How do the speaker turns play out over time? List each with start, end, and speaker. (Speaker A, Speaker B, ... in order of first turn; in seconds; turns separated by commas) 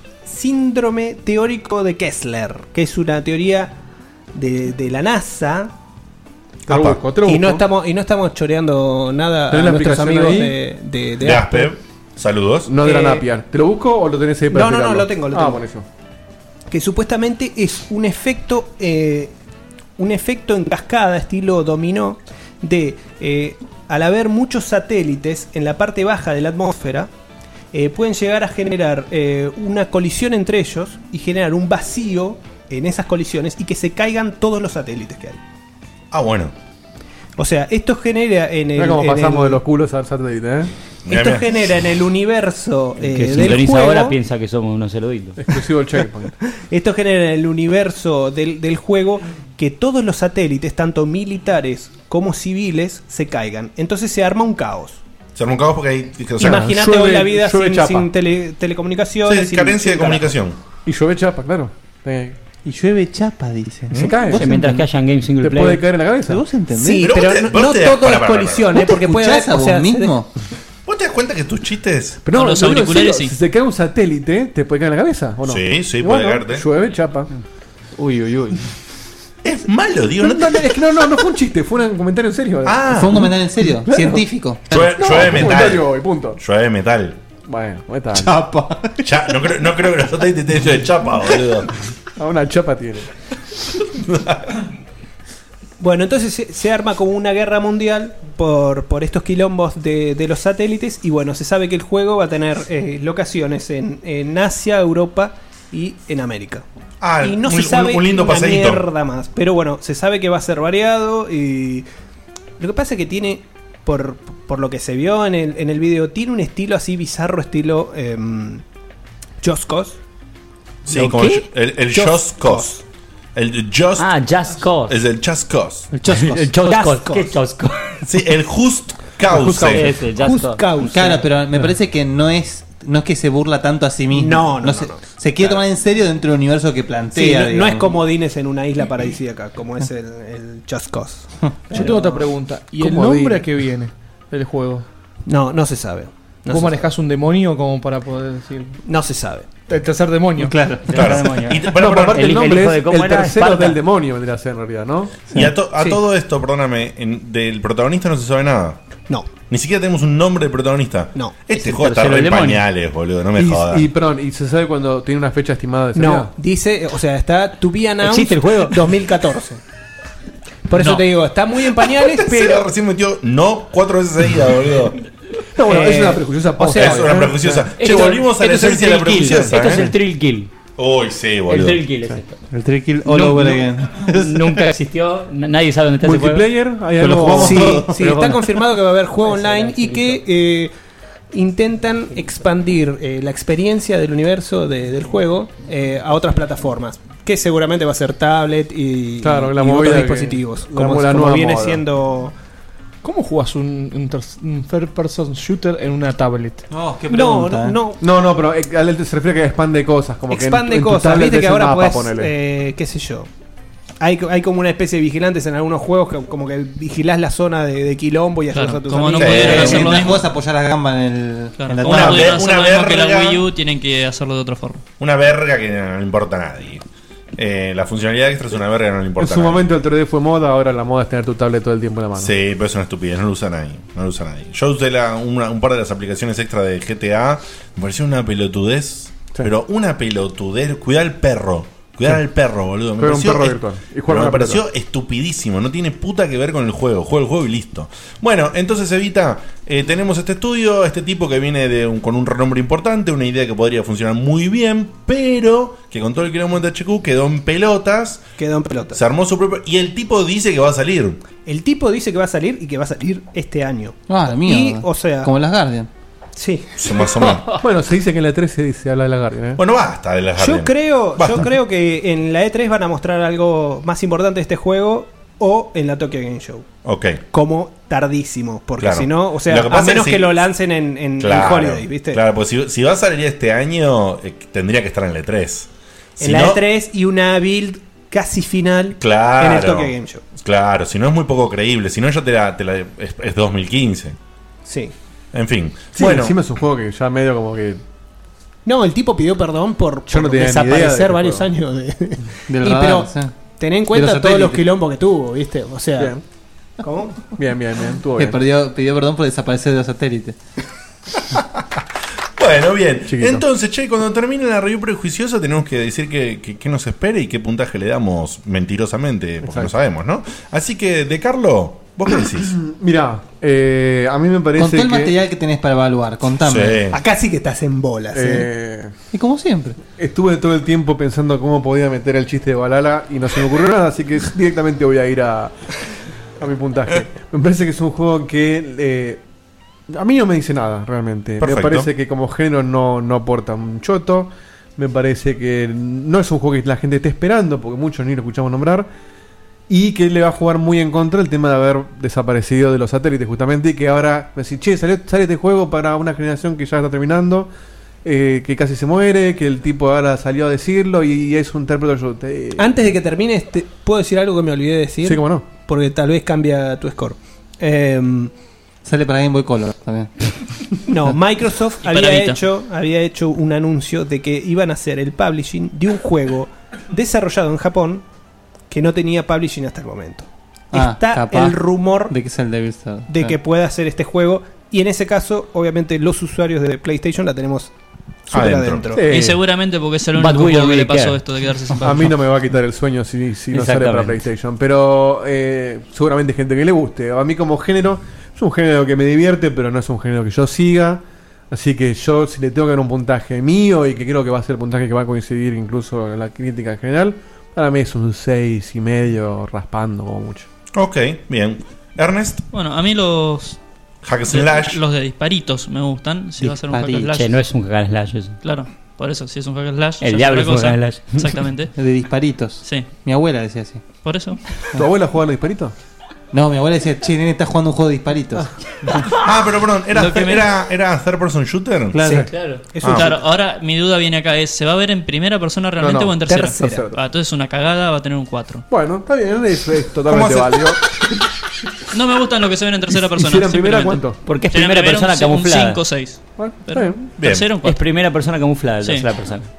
Speaker A: 0.2-3.8, Speaker A: 4.3-5.7, Speaker B: 6.7-7.6, Speaker C: 6.7-7.0, Speaker A: 7.2-11.7, Speaker B: 9.5-10.6, Speaker C: 11.2-12.7, Speaker B: 12.7-15.8, Speaker A: 12.8-13.3, Speaker A: 14.5-15.6, Speaker A: 16.7-19.3, Speaker A: 20.0-27.1, Speaker A: 27.7-35.4, Speaker C: 36.1-36.5, Speaker A: 37.4-39.6, Speaker B: 38.8-40.7, Speaker C: 41.1-41.8, Speaker A: 41.1-44.2, Speaker D: 43.1-45.4, Speaker B: 45.4-46.3, Speaker A: 46.7-55.0, Speaker C: 55.4-56.7, Speaker B: 56.4-58.1, Speaker A: 56.4-60.3, Speaker C: 59.2-60.6, Speaker B: 60.9-62.4, Speaker E: 62.6-64.9, Speaker C: 63.9-64.2, Speaker B: 63.9-64.6, Speaker D: 64.3-65.9, Speaker B: 65.4-66.4, Speaker E: 66.3-67.1, Speaker A: 66.7-70.2, Speaker C: 67.0-68.7, Speaker E: 68.7-70.3, Speaker C: 70.9-72.2, Speaker B: 72.2-77.3, Speaker F: 72.3-73.3, Speaker C: 75.5-76.7, Speaker B: 78.1-78.4, Speaker C: 79.4-80.6, Speaker B: 80.2-83.3, Speaker C: 82.7-83.3, Speaker E: 82.9-84.6, Speaker B: 83.9-86.4, Speaker C: 84.7-87.2, Speaker B: 87.5-88.4, Speaker E: 88.1-89.1, Speaker C: 89.0-91.7, Speaker B: 92.2-93.1, Speaker C: 93.9-94.6, Speaker A: 95.8-106.7, Speaker C: 107.0-108.8, Speaker A: 107.2-111.9, Speaker A: 112.6-118.6, Speaker A: 119.4-120.0, Speaker C: 120.8-122.8, Speaker D: 120.9-121.4, Speaker A: 121.9-122.7, Speaker C: 123.3-124.1, Speaker D: 124.0-125.0, Speaker C: 124.9-125.9, Speaker E: 125.9-126.5, Speaker D: 126.1-128.0, Speaker A: 126.6-127.4, Speaker C: 128.0-129.9, Speaker A: 129.4-131.2, Speaker D: 129.6-130.7, Speaker E: 130.8-138.0, Speaker A: 134.1-135.6, Speaker A: 137.2-142.2, Speaker E: 141.5-141.9, Speaker G: 141.7-144.9, Speaker B: 142.8-143.5, Speaker A: 145.3-146.8, Speaker G: 146.5-148.8, Speaker A: 148.8-149.6, Speaker G: 149.7-150.6, Speaker E: 150.4-151.2, Speaker D: 150.9-153.8, Speaker C: 150.9-152.4, Speaker B: 151.7-155.1, Speaker C: 155.3-158.8, Speaker C: 159.5-163.9, Speaker A: 161.2-161.8, Speaker D: 161.8-162.7, Speaker B: 163.4-166.3, Speaker A: 165.9-169.6, Speaker A: 170.7-172.7, Speaker C: 172.1-175.0, Speaker B: 175.6-177.7, Speaker A: 175.7-177.2, Speaker C: 176.8-179.9, Speaker D: 177.8-180.5, Speaker B: 179.2-179.9, Speaker C: 180.8-181.8, Speaker D: 181.5-182.4, Speaker E: 182.5-184.7, Speaker D: 184.0-186.5, Speaker B: 186.0-187.9, Speaker E: 187.0-188.2, Speaker A: 187.3-190.7, Speaker D: 188.0-188.4, Speaker D: 189.4-190.2, Speaker A: 191.3-202.3, Speaker B: 199.2-201.8, Speaker G: 203.0-206.7, Speaker E: 206.7-207.8, Speaker A: 207.1-208.0, Speaker B: 208.0-212.3, Speaker A: 210.3-213.3, Speaker A: 214.0-219.9, Speaker F: 218.5-220.3, Speaker C: 219.2-219.9, Speaker E: 219.3-222.4, Speaker F: 221.6-224.8, Speaker C: 221.8-223.4, Speaker C: 225.0-226.8, Speaker C: 227.4-229.6, Speaker B: 229.2-232.3, Speaker C: 232.2-258.2, Speaker B: 243.0-244.6, Speaker A: 258.4-259.0, Speaker C: 258.9-261.2, Speaker A: 261.5-265.3, Speaker E: 264.1-265.9, Speaker A: 266.4-266.8, Speaker C: 266.8-267.5, Speaker B: 267.6-269.6, Speaker C: 269.6-271.5, Speaker A: 270.4-276.7, Speaker C: 276.9-277.2, Speaker A: 277.3-282.2, Speaker C: 278.8-280.4, Speaker C: 281.2-286.6, Speaker A: 286.2-290.2, Speaker C: 289.0-294.2, Speaker A: 294.6-294.9, Speaker C: 295.3-296.4, Speaker B: 296.0-297.8, Speaker A: 298.6-306.2, Speaker B: 300.1-301.5, Speaker E: 302.5-303.4, Speaker E: 303.9-304.6, Speaker A: 306.8-307.3, Speaker B: 307.4-308.4, Speaker E: 308.2-310.4, Speaker C: 312.4-322.5, Speaker B: 313.1-313.4, Speaker B: 319.4-319.7, Speaker B: 322.4-325.1, Speaker E: 324.6-326.8, Speaker C: 326.5-327.0, Speaker A: 326.9-328.5, Speaker B: 328.1-328.9, Speaker E: 329.1-329.8, Speaker B: 330.0-335.7, Speaker B: 336.4-339.2, Speaker B: 339.9-348.9, Speaker C: 341.4-341.9, Speaker B: 349.7-357.5, Speaker B: 358.0-362.7, Speaker A: 362.6-368.3, Speaker B: 365.0-365.5, Speaker E: 368.9-370.1, Speaker A: 370.9-378.0, Speaker F: 371.8-372.4, Speaker A: 378.7-382.1, Speaker E: 380.7-383.4, Speaker A: 383.1-387.7, Speaker A: 388.3-389.1, Speaker C: 388.3-388.9, Speaker B: 389.0-389.4, Speaker F: 389.1-392.1, Speaker D: 390.1-391.2, Speaker B: 391.8-410.5, Speaker D: 393.5-394.2, Speaker C: 410.7-412.4, Speaker F: 412.5-413.6, Speaker C: 414.0-414.8, Speaker F: 414.3-417.4, Speaker E: 416.4-417.2, Speaker D: 417.1-418.4, Speaker F: 418.4-421.7, Speaker D: 420.0-421.4, Speaker E: 421.8-423.8, Speaker F: 424.0-424.4, Speaker B: 424.8-425.7, Speaker E: 426.3-428.5, Speaker C: 429.2-432.0, Speaker F: 429.9-430.5, Speaker E: 431.9-432.3, Speaker A: 432.0-433.1, Speaker D: 432.3-432.6, Speaker C: 432.8-433.2, Speaker F: 432.9-438.6, Speaker B: 435.8-436.9, Speaker A: 436.3-436.9, Speaker B: 438.7-441.0, Speaker C: 440.1-440.6, Speaker F: 441.9-447.8, Speaker B: 443.1-444.2, Speaker D: 444.2-445.8, Speaker B: 446.4-447.0, Speaker C: 447.2-447.5, Speaker D: 447.6-449.5